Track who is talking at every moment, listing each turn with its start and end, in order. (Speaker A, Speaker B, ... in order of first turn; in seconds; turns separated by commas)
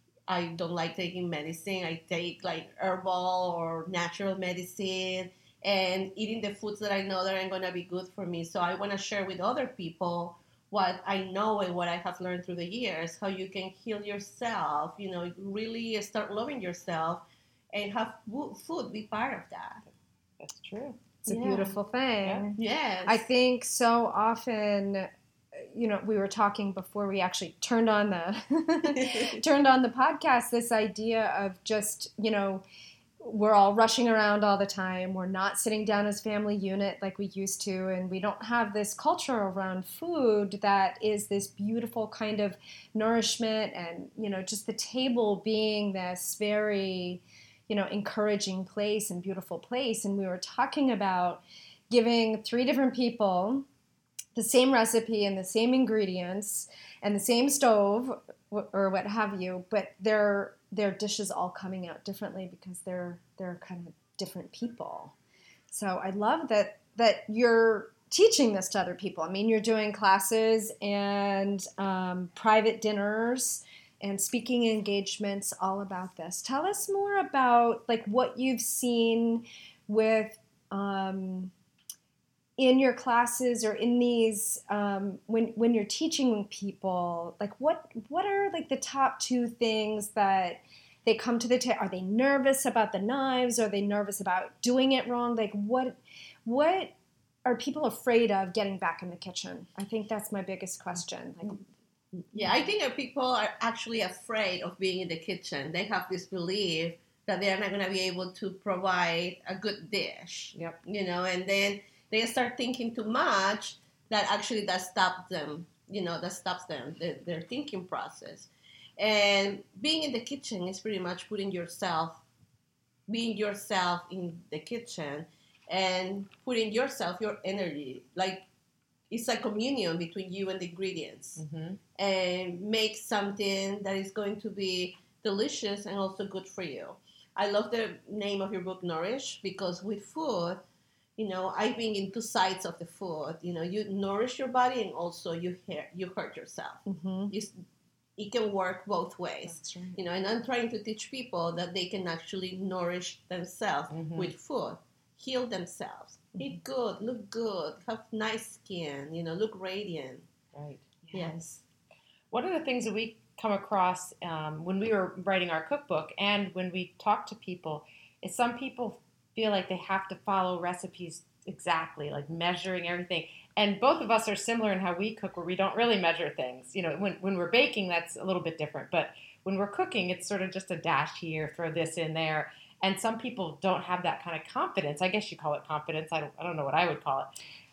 Speaker A: 0.3-19.8, Speaker B: 20.4-21.0, Speaker C: 21.2-32.6, Speaker A: 21.3-21.8, Speaker A: 22.6-23.2, Speaker A: 28.9-29.4, Speaker C: 33.2-53.6, Speaker C: 54.3-65.1, Speaker C: 65.7-81.5, Speaker C: 82.6-96.9, Speaker C: 97.4-101.6, Speaker A: 102.1-122.2, Speaker A: 123.1-128.4, Speaker A: 129.1-131.4, Speaker B: 131.4-131.8, Speaker A: 131.9-140.6, Speaker A: 141.2-147.6, Speaker C: 146.8-147.3, Speaker A: 148.2-160.3, Speaker C: 149.4-150.0, Speaker B: 153.9-154.3, Speaker B: 160.5-161.1, Speaker A: 161.1-161.6, Speaker B: 162.3-187.3